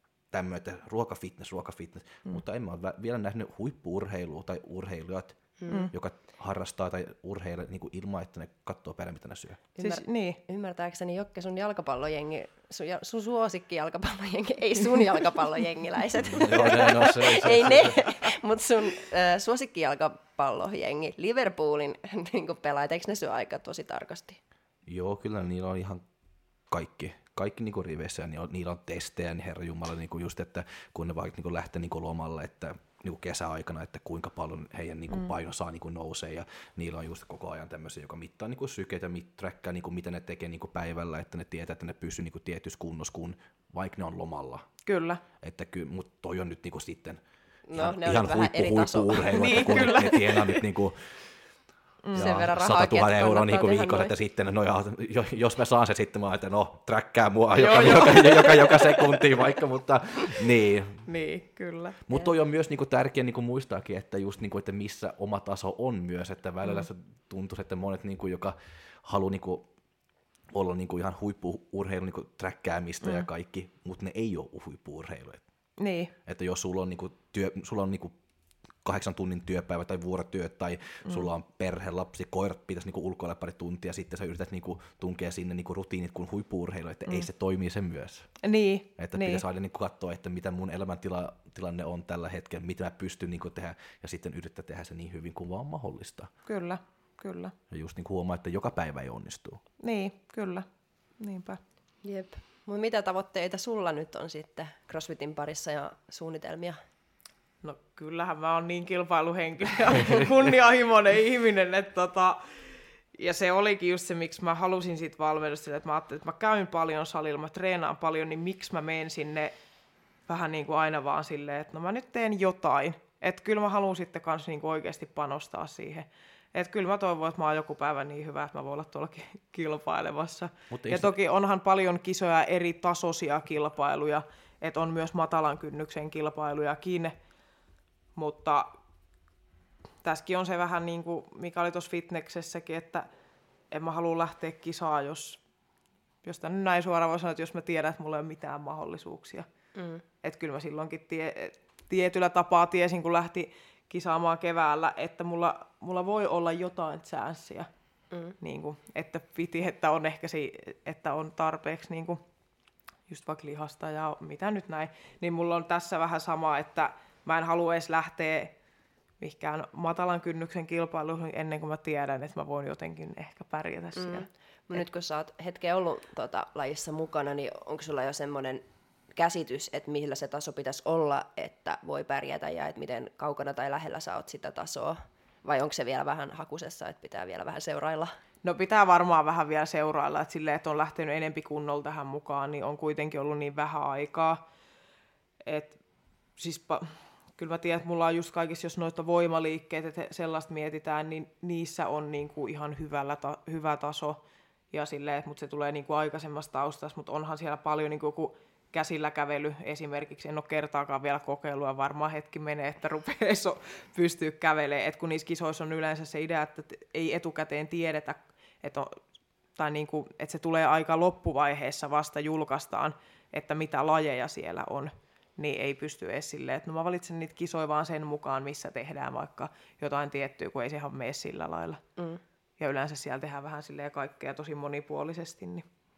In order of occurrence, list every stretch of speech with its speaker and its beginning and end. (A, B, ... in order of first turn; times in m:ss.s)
0:00.3-0:09.6 A
0:05.6-0:05.9 B
0:09.8-0:24.4 B
0:09.8-0:10.4 C
0:16.2-0:18.2 A
0:24.8-0:26.0 A
0:26.7-0:44.6 A
0:44.8-0:45.2 C
0:45.4-0:47.2 A
0:47.7-0:50.1 B
0:47.7-0:51.0 A
0:49.3-0:50.6 C
0:52.0-0:52.4 C
0:52.1-0:54.1 B
0:52.1-1:01.1 A
0:57.5-0:58.9 C
1:01.0-1:02.0 C
1:02.1-1:09.7 A
1:10.5-1:15.4 A
1:15.8-1:16.1 C
1:16.2-1:18.2 A
1:18.8-1:28.3 A
1:28.4-1:29.4 C
1:29.0-1:36.3 A
1:36.4-1:37.5 C
1:37.7-1:39.6 A
1:39.8-1:40.6 C
1:41.2-1:41.6 C
1:42.0-1:46.8 B
1:47.6-1:59.5 C
2:00.3-2:17.1 C
2:10.7-2:11.1 A
2:18.2-2:18.7 C
2:20.0-2:23.1 C
2:23.7-2:25.4 C
2:26.2-2:29.5 C
2:29.8-2:30.0 B
2:30.2-2:37.7 C
2:38.4-2:42.2 C
2:43.1-2:48.5 C
2:49.2-2:54.8 C
2:53.9-2:58.6 B
2:59.2-3:08.1 B
3:08.4-3:14.4 C
3:15.4-3:15.8 C
3:16.4-3:39.0 C
3:39.6-3:51.8 C
3:52.6-3:55.6 C